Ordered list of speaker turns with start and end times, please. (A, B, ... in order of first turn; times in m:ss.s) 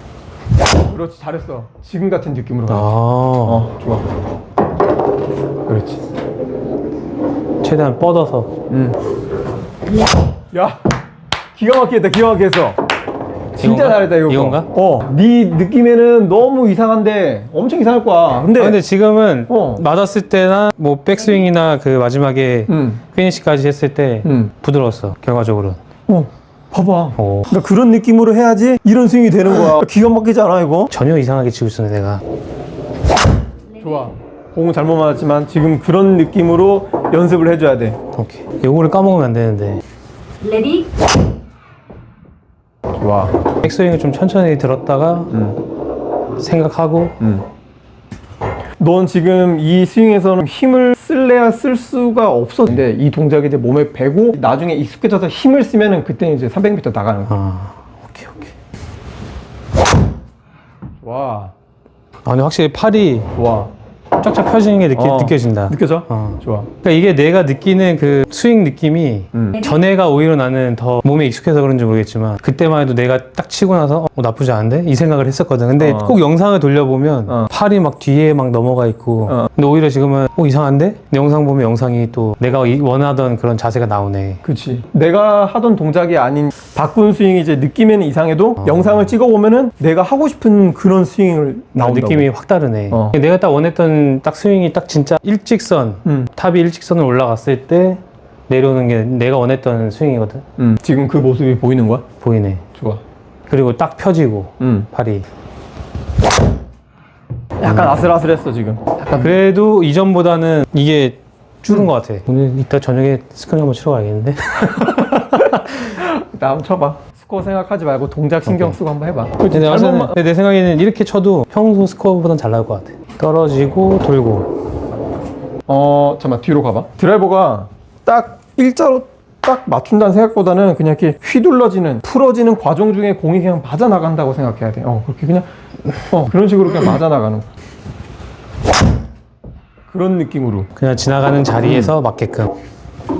0:00.8-0:02.9 A
0:02.7-0:03.7 B
0:03.4-0:04.1 A
0:05.7-0:06.0 A
0:07.6-0:08.5 B
0:08.7-0:09.0 A
0:10.5-0:10.9 A
0:11.6-0:12.8 A
0:13.5-0:18.8 A
0:13.6-0:14.7 B
0:18.6-0:25.8 B
0:19.5-0:19.8 A
0:22.7-0:23.0 A
0:24.2-0:24.5 A
0:26.1-0:30.9 A
0:27.2-0:27.5 B
0:30.9-0:32.2 B
0:33.8-0:38.0 A
0:38.1-0:39.8 B
0:42.9-0:43.4 A
0:43.5-0:45.3 B
0:45.3-0:45.6 A
0:46.4-0:47.2 B
0:47.2-0:47.4 A
0:48.8-0:57.3 A
0:57.3-0:58.5 B
1:01.0-1:01.5 A
1:02.2-1:03.3 B
1:03.3-1:03.7 A
1:04.2-1:24.4 B
1:04.9-1:06.7 A
1:09.3-1:09.6 A
1:15.8-1:16.2 A
1:24.4-1:32.3 A
1:28.6-1:29.0 B
1:31.8-1:40.4 B
1:32.9-1:33.2 A
1:36.0-1:36.3 A
1:40.6-1:42.0 A
1:42.2-1:42.6 B
1:42.7-1:43.0 A
1:43.5-1:45.2 B
1:44.6-1:44.9 A
1:47.6-1:49.4 A
1:47.6-1:48.0 B
1:49.1-1:55.9 B
1:54.6-2:00.1 A
1:58.4-1:58.8 B
1:59.5-2:04.5 B
2:05.7-2:15.5 A
2:16.1-2:17.5 A
2:19.9-2:20.7 A
2:20.8-2:22.5 B